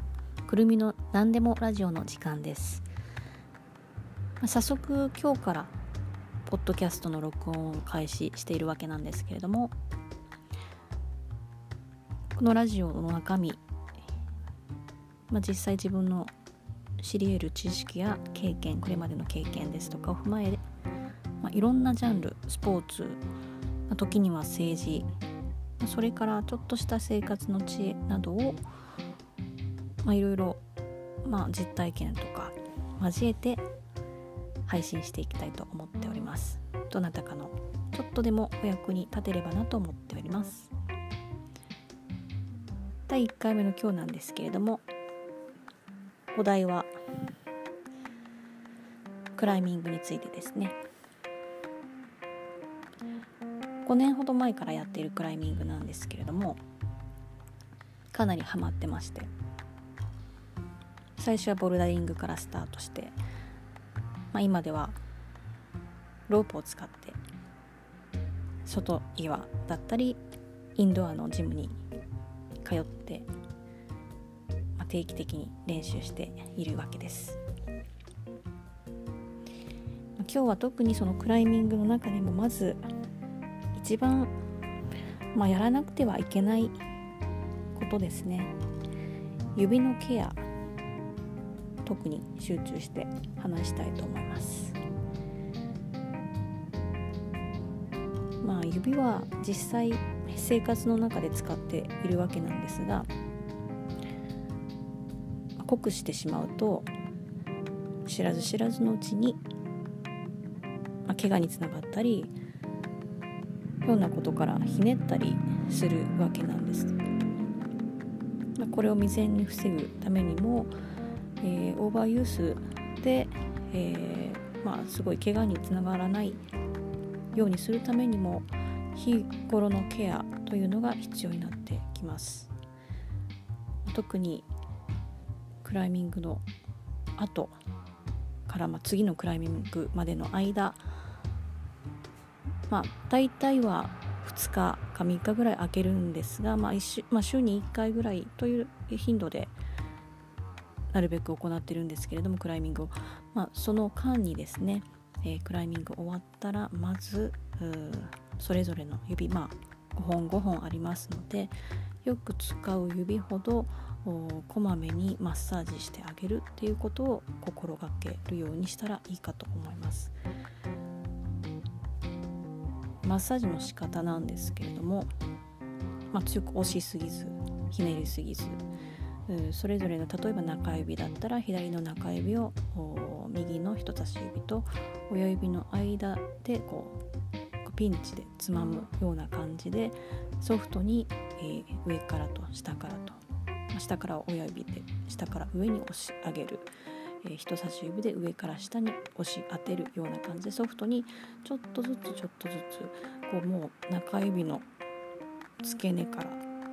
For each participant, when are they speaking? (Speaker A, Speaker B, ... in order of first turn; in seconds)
Speaker A: 0.4-2.8, 4.4-5.7, 6.5-9.7, 12.3-13.6, 15.3-16.3, 17.0-20.6, 21.4-23.2, 23.9-25.1, 25.8-28.6, 30.0-30.6, 31.2-33.6, 34.7-40.7, 43.1-44.8, 46.3-46.9, 49.3-50.8, 53.8-56.6, 58.1-59.3, 61.2-63.1, 64.3-65.0, 66.3-67.2, 68.6-70.2, 70.8-71.8, 72.6-73.3, 74.8-77.4, 80.2-82.9, 83.7-84.3, 85.3-86.7, 87.7-88.5, 89.5-90.4, 91.8-94.8, 98.4-103.1, 105.6-106.9, 108.0-109.4, 111.0-112.3, 113.8-117.0, 118.6-120.7, 121.4-126.4, 127.3-132.5, 133.8-134.5, 135.6-136.4, 137.2-137.6, 138.5-140.8, 142.7-149.5, 150.9-170.1, 173.0-175.1, 176.1-178.6, 179.3-187.0, 187.6-193.2, 193.7-196.7, 197.2-204.7, 205.6-206.4